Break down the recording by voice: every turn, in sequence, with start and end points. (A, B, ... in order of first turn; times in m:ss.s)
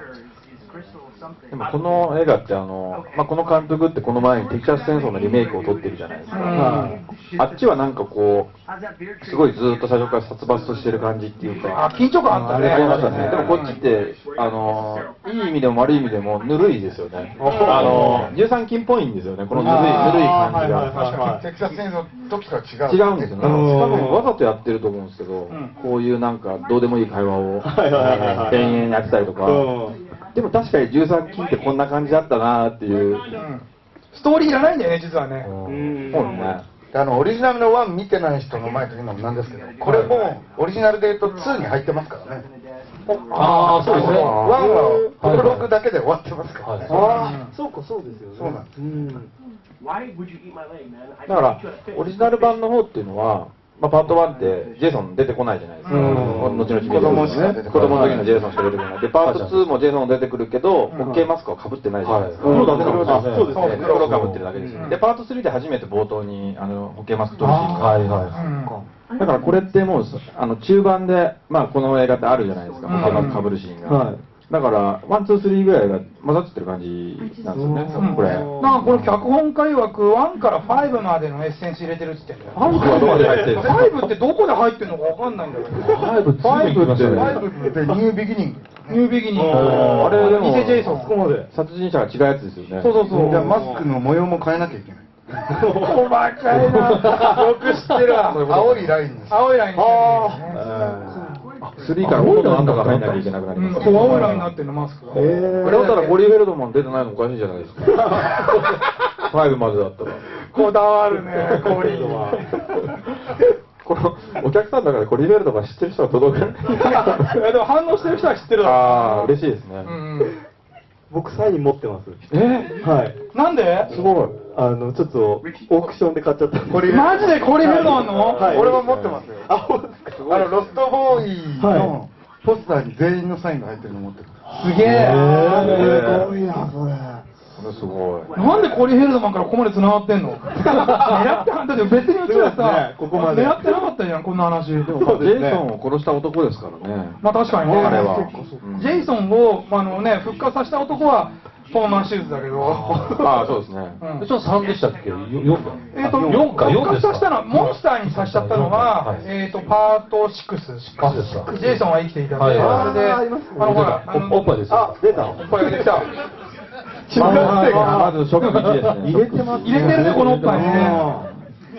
0:01.5-0:08.5 A
0:06.3-0:07.0 B
0:06.6-0:07.0 C
0:09.2-0:11.9 A
0:11.7-0:13.8 B
0:12.3-0:13.6 C
0:12.4-0:21.0 A
0:17.4-0:18.4 C
0:17.4-0:18.1 B
0:19.5-0:21.4 C
0:20.8-0:23.6 D
0:22.9-0:29.7 A
0:23.4-0:24.3 C
0:27.6-0:28.8 C
0:28.1-0:28.4 E
0:28.5-0:28.8 B
0:29.4-0:30.0 C
0:30.3-0:33.3 A
0:33.3-0:35.5 B
0:35.4-0:36.0 E
0:35.7-0:36.6 C
0:36.1-0:36.6 A
0:36.9-0:42.5 D
0:39.8-0:40.1 B
0:43.1-0:44.5 B
0:43.3-0:44.4 E
0:43.8-0:46.9 D
0:43.8-0:44.8 A
0:44.5-0:44.9 C
0:45.0-0:45.7 E
0:46.6-0:46.9 E
0:46.8-0:49.3 C
0:46.9-0:47.5 B
0:48.3-0:48.7 D
0:51.3-1:08.4 A
0:55.8-0:56.4 B
0:55.9-0:57.6 C
0:56.0-0:58.4 E
0:56.7-0:58.6 D
0:59.2-0:59.8 E
1:01.0-1:01.3 C
1:02.0-1:04.4 E
1:02.4-1:04.9 C
1:02.4-1:03.9 D
1:03.5-1:04.0 B
1:04.8-1:05.0 B
1:07.4-1:08.8 C
1:07.5-1:08.4 E
1:08.3-1:08.8 B
1:09.2-1:19.1 A
1:12.9-1:13.5 B
1:12.9-1:13.4 E
1:13.8-1:14.2 C
1:17.5-1:19.0 C
1:17.7-1:18.5 D
1:18.0-1:26.1 B
1:22.5-1:24.1 A
1:22.7-1:23.7 C
1:25.8-1:26.2 C
1:25.9-1:27.4 E
1:26.4-1:27.4 A
1:27.1-1:29.0 D
1:27.3-1:28.0 C
1:28.9-1:31.2 B
1:29.3-1:31.5 C
1:29.5-1:30.1 E
1:29.6-1:31.0 A
1:31.5-1:33.0 A
1:32.8-1:33.6 B
1:33.1-1:33.9 C
1:33.1-1:35.2 D
1:35.5-1:36.0 C
1:35.8-1:38.4 B
1:36.5-1:37.8 E
1:37.3-1:39.4 D
1:38.1-1:39.0 A
1:39.3-1:40.6 B
1:39.8-1:41.5 C
1:41.6-1:44.5 A
1:42.0-1:43.3 E
1:43.5-1:46.2 B
1:43.9-1:44.4 E
1:45.1-1:45.9 C
1:45.5-1:48.5 A
1:48.0-1:48.7 C
1:49.2-1:50.2 A
1:50.4-1:52.4 B
1:51.3-1:52.7 C
1:53.3-1:57.4 A
1:56.9-2:00.4 B
1:58.6-2:00.0 A
2:01.1-2:02.2 C
2:02.3-2:02.8 A
2:02.8-2:03.2 C
2:03.3-2:04.0 B
2:03.9-2:04.4 A
2:03.9-2:08.8 C
2:06.7-2:09.6 D
2:06.9-2:08.7 B
2:08.0-2:09.3 A
2:09.4-2:10.3 C
2:10.1-2:11.0 A
2:10.3-2:14.4 D
2:11.6-2:11.9 C
2:14.5-2:15.4 B
2:14.7-2:17.3 C
2:15.2-2:16.3 A
2:17.6-2:18.3 A
2:18.3-2:25.0 B
2:20.8-2:21.4 C
2:22.2-2:23.6 C
2:24.8-2:27.2 A
2:25.0-2:25.6 C
2:27.2-2:33.2 B
2:27.6-2:28.6 C
2:27.7-2:29.0 A
2:32.9-2:33.4 C
2:33.2-2:34.0 A
2:34.0-2:34.3 B
2:34.2-2:39.2 E
2:35.9-2:44.6 B
2:41.0-2:41.5 E
2:41.3-2:41.8 C
2:42.4-2:42.8 E
2:42.5-2:43.8 C
2:43.6-2:45.4 E
2:44.7-2:46.1 C
2:45.4-2:46.1 B
2:47.1-2:48.2 C
2:47.2-2:50.1 A
2:47.2-2:48.0 B
2:47.7-2:51.1 E
2:49.1-2:51.3 C
2:49.6-2:51.1 B